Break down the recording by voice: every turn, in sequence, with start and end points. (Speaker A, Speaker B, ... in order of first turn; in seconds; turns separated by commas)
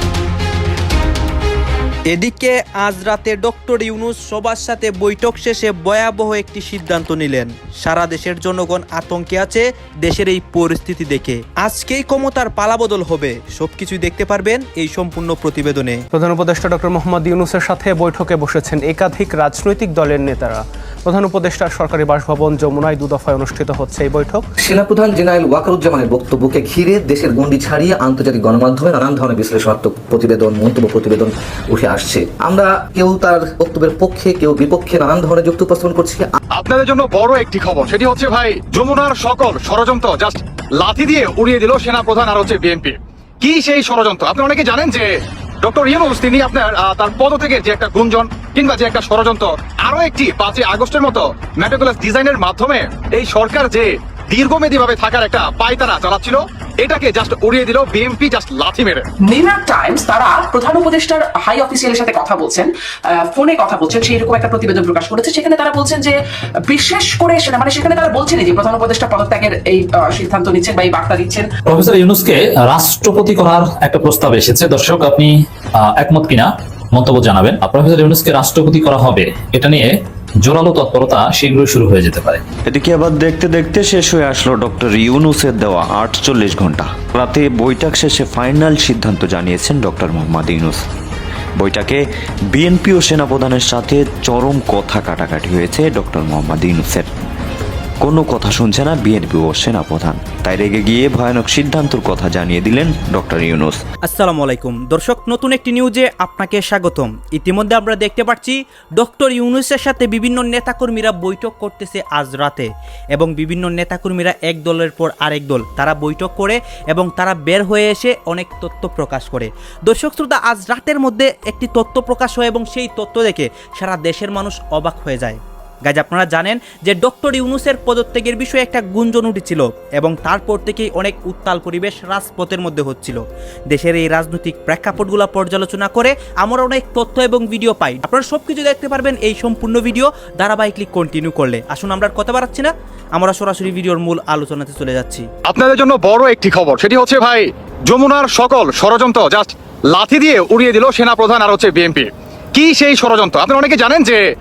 Speaker A: 2.1-16.0, Speaker B: 16.1-24.5, Speaker C: 24.6-36.3, Speaker D: 36.5-45.1, Speaker D: 45.6-59.1, Speaker E: 59.2-71.5, Speaker F: 71.7-82.4, Speaker G: 82.7-90.8, Speaker G: 91.6-97.1, Speaker G: 98.0-103.8, Speaker A: 104.0-145.3, Speaker D: 145.5-154.2